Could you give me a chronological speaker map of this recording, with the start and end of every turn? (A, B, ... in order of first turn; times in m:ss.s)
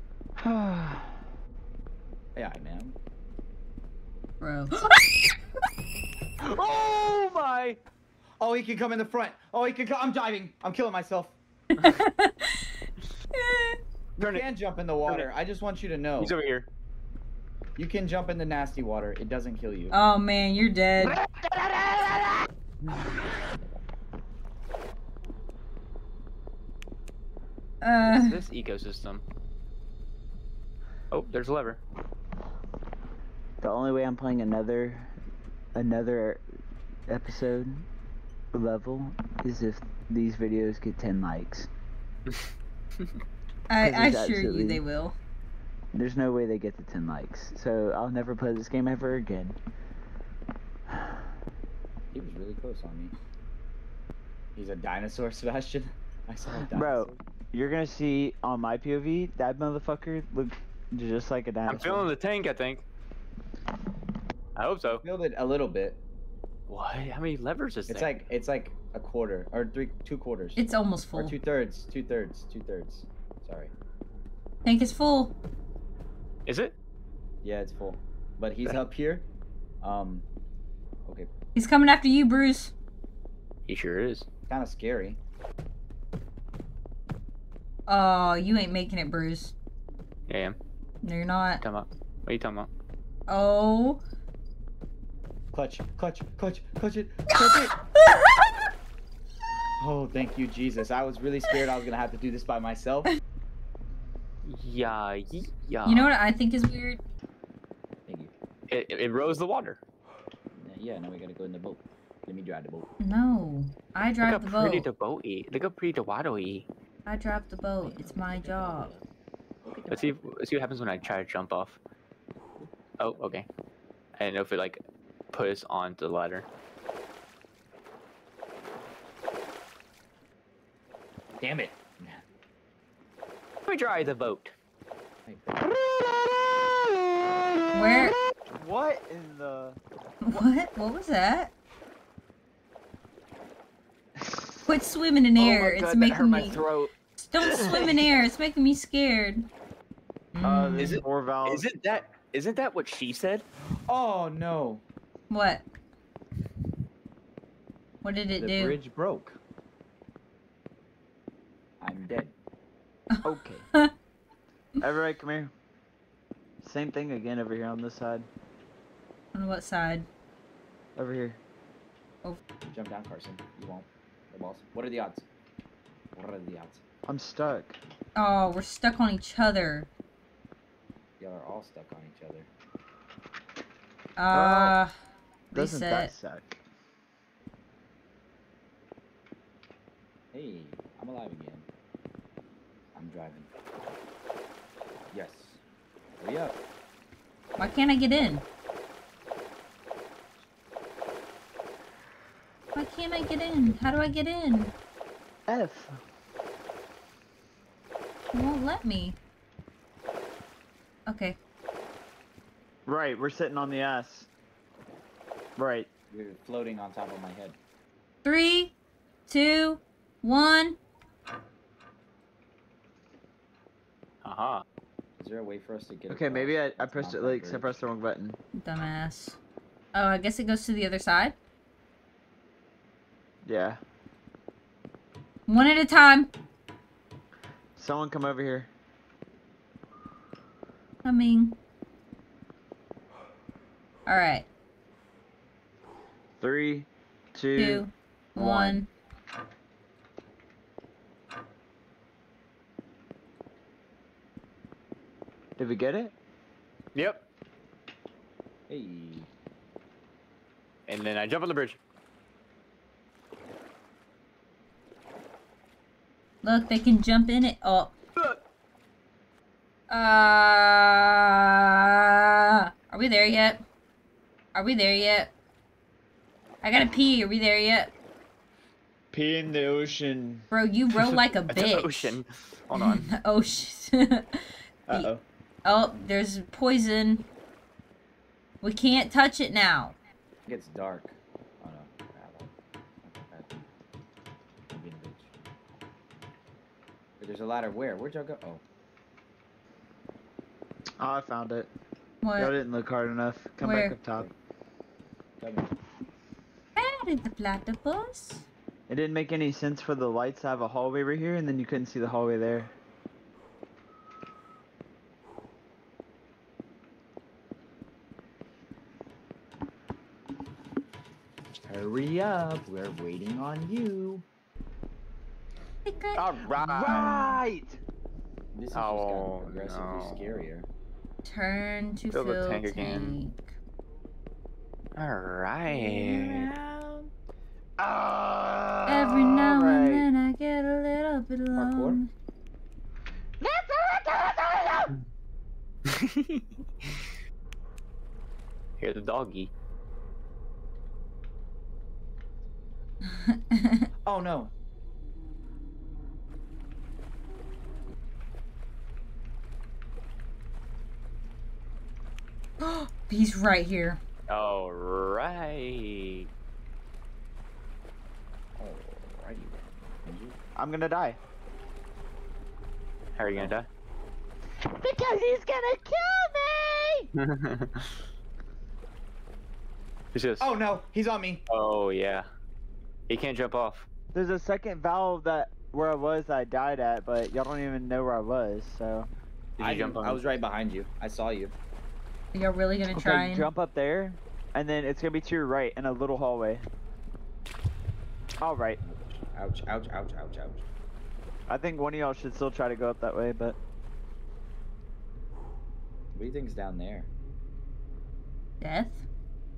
0:00.4-0:01.2 A
0:02.3-0:03.0 B
0:04.4-0:04.9 C
0:06.4-0:07.8 D
0:08.4-0:11.4 B
0:11.8-0:12.7 C
0:13.3-0:13.8 C
0:14.2-0:14.5 D
0:14.3-0:16.4 B
0:16.2-0:16.7 D
0:17.8-0:20.0 B
0:19.9-0:21.2 C
0:21.0-0:22.5 A
0:22.9-0:23.1 D
0:27.8-0:28.4 C
0:28.0-0:29.2 D
0:31.1-0:31.8 D
0:33.6-0:35.1 A
0:35.8-0:36.4 A
0:37.1-0:37.9 A
0:38.5-0:41.7 A
0:43.7-0:45.2 C
0:43.8-0:44.8 A
0:45.9-0:49.6 A
0:50.9-0:51.2 A
0:52.1-0:53.1 B
0:54.6-0:57.2 B
0:56.6-1:02.1 A
1:01.7-1:02.8 D
1:04.6-1:05.0 D
1:05.0-1:06.0 B
1:06.7-1:08.1 D
1:07.9-1:10.6 B
1:10.6-1:11.4 C
1:11.1-1:13.7 B
1:14.6-1:15.3 C
1:16.4-1:16.8 D
1:17.4-1:19.3 B
1:19.8-1:20.3 B
1:21.1-1:21.3 B
1:21.6-1:22.7 C
1:23.7-1:24.3 D
1:24.5-1:25.2 B
1:27.9-1:29.6 C
1:30.3-1:30.6 D
1:31.0-1:31.6 C
1:31.6-1:32.7 D
1:33.3-1:34.0 C
1:35.5-1:37.8 B
1:39.8-1:43.1 B
1:44.4-1:46.1 D
1:45.9-1:47.0 C
1:48.1-1:48.3 B
1:48.7-1:49.8 D
1:50.5-1:52.9 B
1:53.0-1:54.9 C
1:54.2-1:56.7 D
1:57.1-1:58.9 C
1:57.8-1:59.0 B
1:59.6-2:00.3 B
1:59.9-2:01.8 D
2:02.6-2:03.2 B
2:03.0-2:03.5 D
2:04.2-2:06.4 D
2:11.4-2:12.2 B
2:13.7-2:14.5 D
2:15.3-2:15.7 B
2:15.6-2:19.8 A
2:17.7-2:18.2 C
2:20.2-2:21.5 C
2:24.2-2:24.7 A
2:24.7-2:26.6 C
2:25.4-2:26.9 D
2:27.2-2:29.5 C
2:27.5-2:28.0 D
2:30.4-2:31.0 C
2:30.4-2:31.7 A
2:30.8-2:33.4 D
2:33.9-2:34.8 B
2:35.3-2:35.6 C
2:38.0-2:38.8 C
2:38.4-2:39.4 B
2:41.8-2:42.4 B
2:43.1-2:43.9 C
2:43.2-2:43.7 A
2:44.8-2:45.5 A
2:46.6-2:48.3 A
2:49.3-2:50.1 C
2:51.0-2:51.4 A
2:52.7-2:55.3 B
2:56.1-2:56.8 B
2:57.0-2:57.8 A
2:58.2-2:59.9 C
3:01.2-3:02.5 B
3:04.2-3:04.9 C
3:04.3-3:04.8 A
3:05.5-3:06.1 C
3:05.5-3:06.6 A
3:10.3-3:11.7 B
3:12.9-3:13.5 B
3:15.1-3:15.6 B
3:16.2-3:16.6 B
3:17.6-3:18.4 C
3:22.7-3:24.8 C
3:25.5-3:26.0 A
3:28.3-3:29.2 C
3:31.1-3:31.4 C
3:32.9-3:34.3 A
3:35.6-3:35.9 A
3:36.1-3:37.6 B
3:38.2-3:38.8 C
3:39.3-3:40.8 C
3:44.2-3:44.6 D
3:45.2-3:47.9 B
3:46.1-3:48.4 A
3:48.6-3:49.4 C
3:49.9-3:51.4 C
3:53.4-3:53.8 A
3:55.5-3:56.3 C
3:57.8-3:58.7 A
4:01.0-4:01.6 C
4:04.1-4:04.5 C
4:06.4-4:08.8 A
4:07.6-4:08.9 C
4:15.6-4:16.1 A
4:16.9-4:17.2 D
4:18.7-4:19.3 B
4:20.9-4:21.8 D
4:26.4-4:28.0 C
4:29.9-4:33.6 C
4:34.5-4:35.3 C
4:36.6-4:37.9 C
4:39.1-4:40.4 A
4:40.5-4:42.2 C
4:40.9-4:43.1 D
4:42.8-4:45.1 C
4:44.9-4:45.2 A
4:45.6-4:47.3 C
4:48.6-4:50.0 C
4:50.5-4:52.5 B
4:53.0-4:53.5 B
4:54.7-4:55.3 B
4:57.2-4:58.6 B
5:01.0-5:01.7 A
5:02.2-5:02.5 C
5:02.4-5:04.3 A
5:03.6-5:04.0 C
5:05.4-5:05.7 B
5:06.8-5:08.5 C
5:08.9-5:12.7 A
5:21.6-5:24.2 B
5:25.8-5:26.2 C
5:26.2-5:27.3 D
5:26.2-5:27.8 A
5:28.5-5:30.7 B
5:28.7-5:30.4 D
5:31.2-5:33.5 C
5:32.1-5:33.2 D
5:35.0-5:36.5 D
5:35.6-5:37.1 B
5:37.8-5:40.1 A
5:38.9-5:42.1 C
5:41.5-5:42.0 B
5:43.4-5:44.9 A
5:46.0-5:46.4 D
5:48.8-5:49.5 D
5:53.1-5:53.9 C
5:54.1-5:54.5 B
6:02.6-6:04.0 C
6:04.3-6:06.3 D
6:08.6-6:10.4 B
6:10.6-6:11.2 A
6:13.2-6:13.7 D
6:13.3-6:13.6 B
6:14.6-6:17.1 A
6:17.2-6:18.0 D
6:20.1-6:20.5 D
6:20.4-6:21.4 B
6:21.5-6:22.3 D
6:23.1-6:23.9 D
6:24.1-6:29.1 A
6:29.6-6:30.4 D
6:29.6-6:31.5 B
6:32.3-6:33.5 C
6:32.9-6:36.6 A
6:38.4-6:38.8 A
6:38.8-6:40.6 B
6:41.5-6:43.6 A
6:46.1-6:47.1 B
6:48.6-6:49.0 C